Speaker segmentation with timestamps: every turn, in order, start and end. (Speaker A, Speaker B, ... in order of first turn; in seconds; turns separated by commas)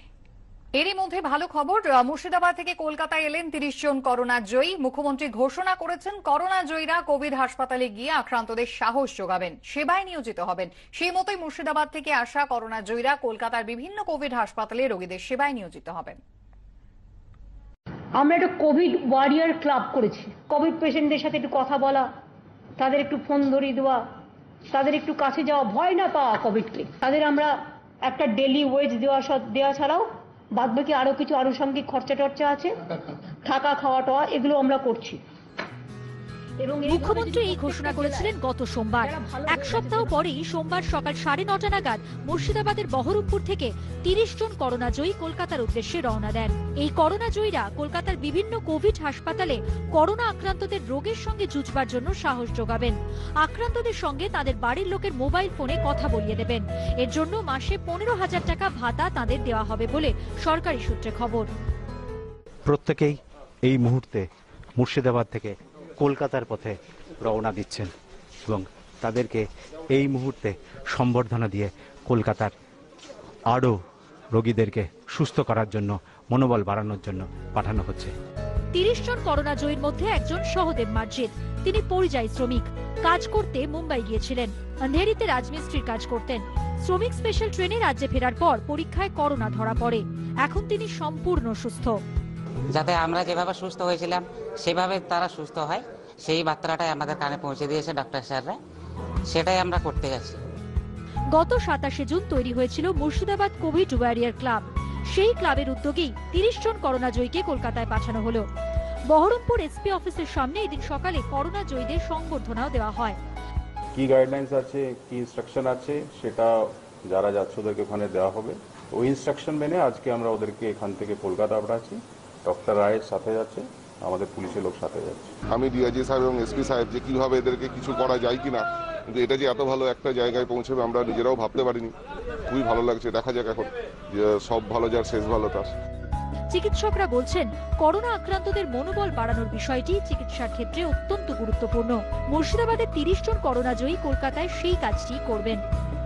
Speaker A: 0.8-16.2, Speaker B: 18.2-22.1, Speaker B: 22.8-24.0, Speaker B: 24.7-32.7, Speaker B: 33.5-35.2, Speaker B: 36.6-38.3, Speaker C: 36.9-61.5, Speaker B: 39.0-40.2, Speaker D: 62.7-64.3, Speaker D: 64.8-67.9, Speaker D: 68.5-72.5, Speaker D: 73.5-73.8, Speaker D: 74.3-78.1, Speaker C: 78.7-92.0, Speaker E: 92.7-98.6, Speaker E: 99.3-100.4, Speaker C: 101.3-108.5, Speaker C: 109.1-113.2, Speaker F: 113.9-125.3, Speaker G: 125.5-131.9, Speaker G: 132.5-135.7, Speaker C: 136.5-145.6